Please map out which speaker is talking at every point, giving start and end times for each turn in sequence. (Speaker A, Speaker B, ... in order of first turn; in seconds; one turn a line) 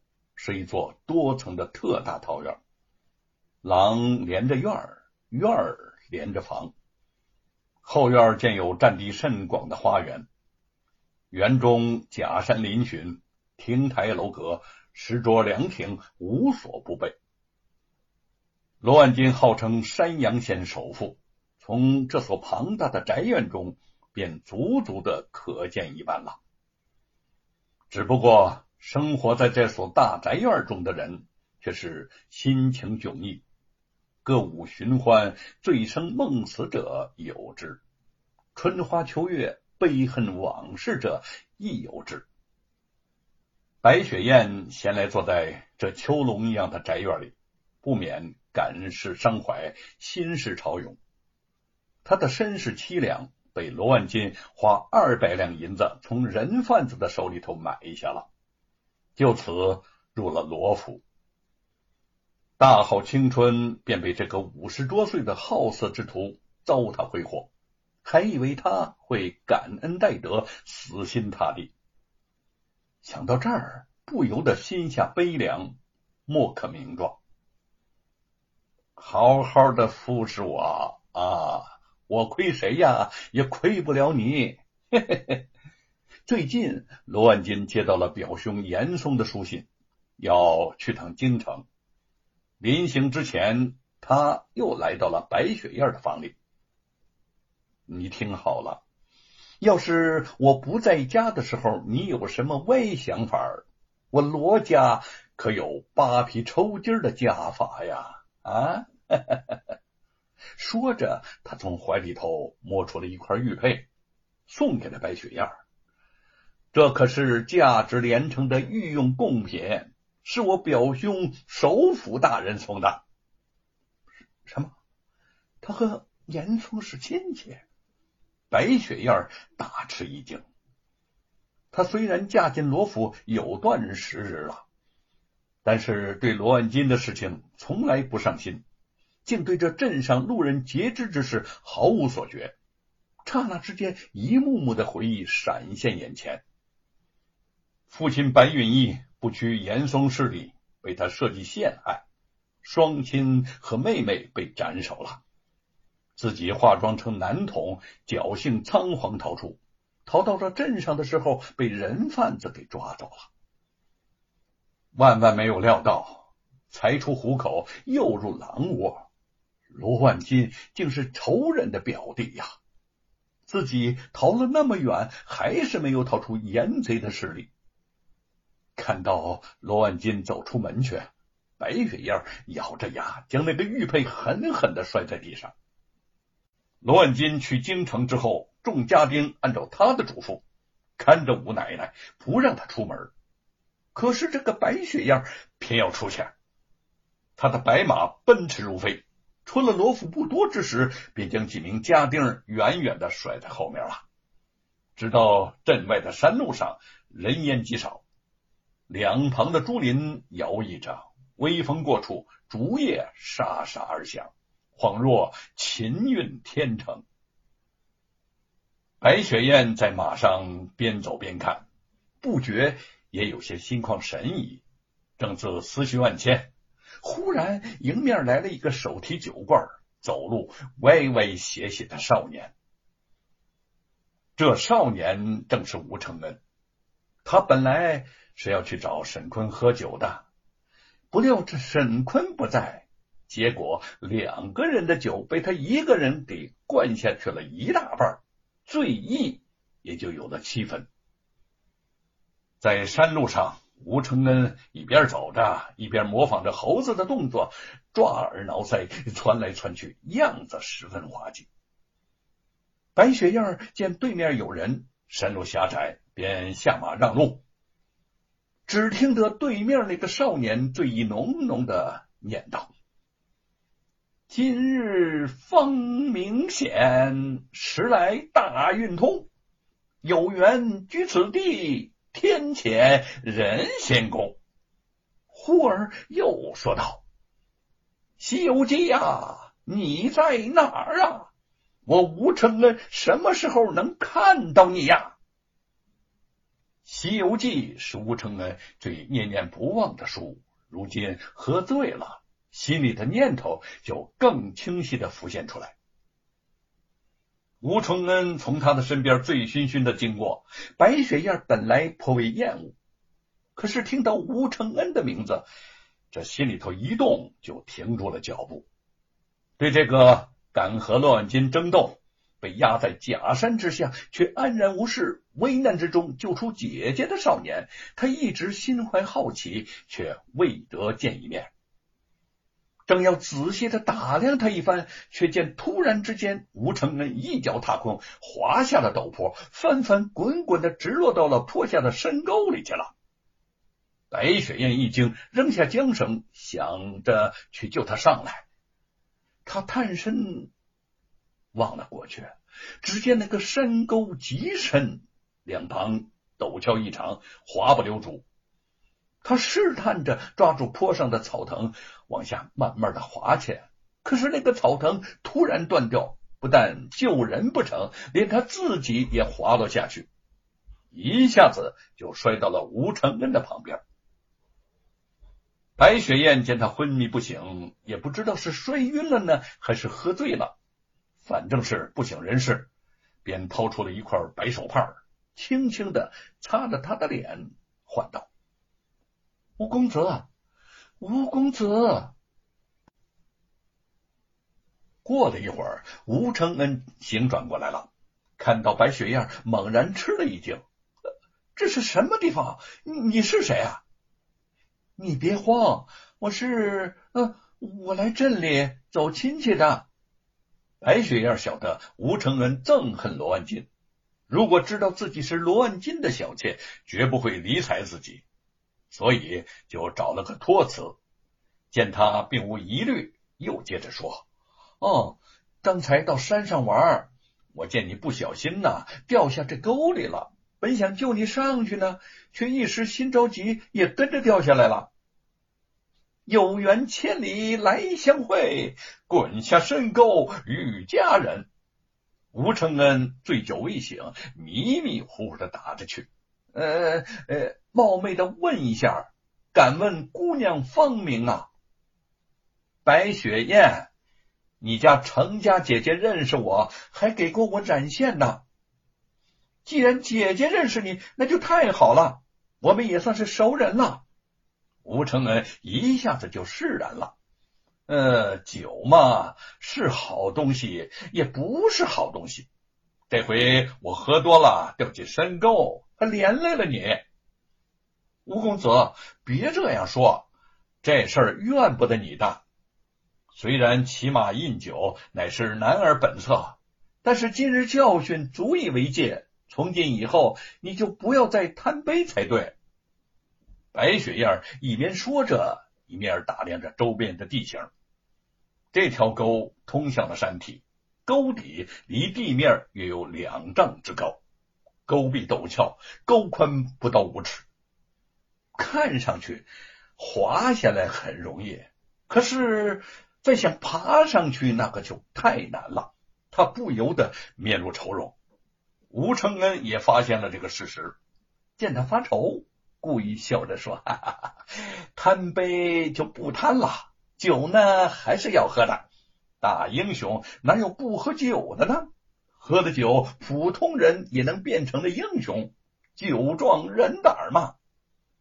Speaker A: 0.4-2.6
Speaker A: 3.6-6.7
Speaker A: 7.8-10.3
Speaker A: 11.3-17.2
Speaker A: 18.8-26.4
Speaker A: 27.9-33.4
Speaker A: 34.2-37.8
Speaker A: 38.5-42.3
Speaker A: 43.8-51.0
Speaker A: 52.0-58.3
Speaker A: 59.2-61.0
Speaker A: 62.6-67.5
Speaker A: 68.0-71.7
Speaker A: 73.0-77.2
Speaker A: 79.0-85.5
Speaker A: 86.3-91.7
Speaker A: 92.6-96.3
Speaker A: 97.9-98.8
Speaker A: 99.6-109.6
Speaker A: 110.6-113.9
Speaker A: 114.5-115.5
Speaker A: 116.7-123.0
Speaker A: 124.5-124.7
Speaker A: 125.6-127.7
Speaker A: 128.5-130.4
Speaker A: 131.7-134.6
Speaker A: 135.6-138.6
Speaker A: 139.2-142.6
Speaker A: 143.2-146.4
Speaker A: 147.9-152.1
Speaker A: 152.6-155.2
Speaker A: 156.2-163.3
Speaker A: 165.0-169.1
Speaker A: 169.7-172.5
Speaker A: 173.5-177.5
Speaker A: 178.8-185.5
Speaker A: 186.8-190.4
Speaker A: 191.0-193.1
Speaker A: 193.9-196.3
Speaker A: 197.4-204.0
Speaker A: 205.0-208.0
Speaker A: 208.9-217.1
Speaker A: 219.0-221.7
Speaker A: 222.2-224.6
Speaker A: 225.2-232.5
Speaker A: 234.4-236.4
Speaker A: 237.2-240.2
Speaker A: 241.1-250.9
Speaker A: 252.6-261.5
Speaker A: 263.0-267.4
Speaker A: 268.7-272.7
Speaker A: 274.3-279.3
Speaker A: 280.0-284.4
Speaker A: 285.3-287.0
Speaker A: 288.2-291.3
Speaker A: 291.9-295.2
Speaker A: 296.9-305.8
Speaker A: 307.6-312.8
Speaker A: 313.6-315.5
Speaker A: 316.1-318.7
Speaker A: 319.6-331.5
Speaker A: 332.9-342.9
Speaker A: 344.1-348.5
Speaker A: 349.5-350.5
Speaker A: 351.5-358.3
Speaker A: 359.2-370.1
Speaker A: 370.9-373.8
Speaker A: 375.8-380.5
Speaker A: 381.2-382.7
Speaker A: 383.2-388.3
Speaker A: 389.6-390.3
Speaker A: 391.0-392.1
Speaker A: 395.1-400.6
Speaker A: 401.6-403.8
Speaker A: 405.0-409.9
Speaker A: 410.8-413.7
Speaker A: 414.3-418.2
Speaker A: 418.9-421.0
Speaker A: 421.7-424.3
Speaker A: 424.8-434.9
Speaker A: 436.3-441.5
Speaker A: 442.3-451.5
Speaker A: 452.9-453.9
Speaker A: 454.6-458.4
Speaker A: 459.6-464.1
Speaker A: 464.8-467.1
Speaker A: 467.9-472.5
Speaker A: 473.1-477.1
Speaker A: 478.3-480.3
Speaker A: 480.8-482.4
Speaker A: 483.3-492.6
Speaker A: 493.7-497.7
Speaker A: 498.7-504.2
Speaker A: 504.9-507.5
Speaker A: 508.6-518.2
Speaker A: 518.9-521.0
Speaker A: 521.6-528.9
Speaker A: 529.4-537.5